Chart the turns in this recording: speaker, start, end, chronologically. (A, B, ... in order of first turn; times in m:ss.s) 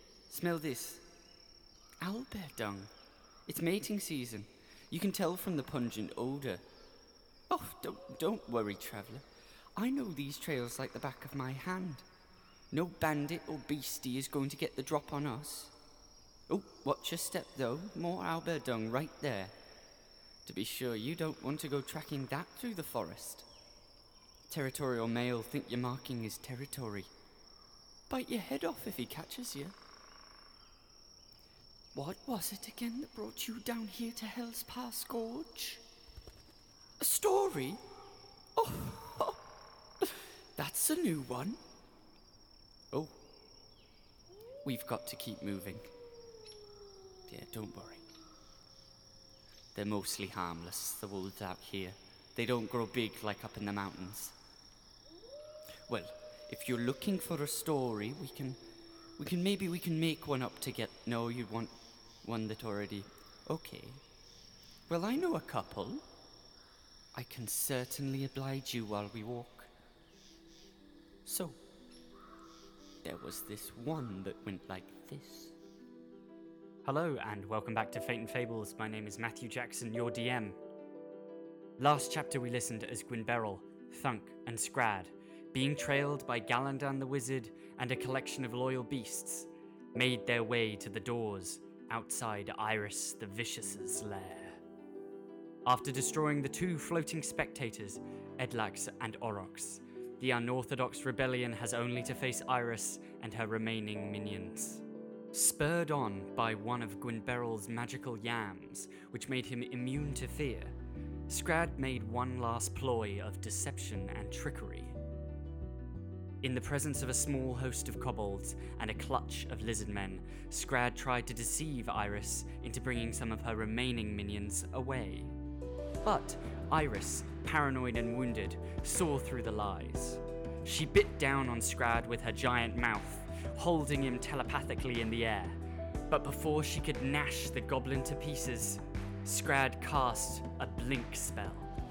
0:00.3-0:01.0 A
0:02.0-0:02.9 A
0:03.5-0:06.6 A
0:07.5-0:09.2 A
0:09.8-0:12.0 A
0:12.7-0:15.7 A
0:16.5-0:19.5 A
0:20.5-0:23.4 A
0:24.5-0:27.1 A
0:28.1-0:29.7 A
0:32.0-0:35.8 A
0:37.0-0:37.8 A
0:38.6-0:39.3 A
0:40.6-0:41.6 A
0:44.6-0:45.8 A
0:47.4-0:48.0 A
0:49.8-0:54.3 A
0:55.9-0:57.0 A
0:57.8-0:58.5 A
0:59.3-1:00.4 A
1:00.9-1:01.7 A
1:02.3-1:03.9 A
1:04.9-1:06.0 A
1:07.2-1:07.7 A
1:08.3-1:08.5 A
1:09.1-1:09.6 A
1:11.2-1:11.5 A
1:13.1-1:15.5 A
1:16.8-1:20.6 A
1:21.8-1:34.6 A
1:35.6-1:44.8 A
1:45.3-1:50.7 A
1:51.3-1:54.9 A
1:56.4-2:05.3 A
2:06.0-2:15.6 A
2:16.1-2:21.7 A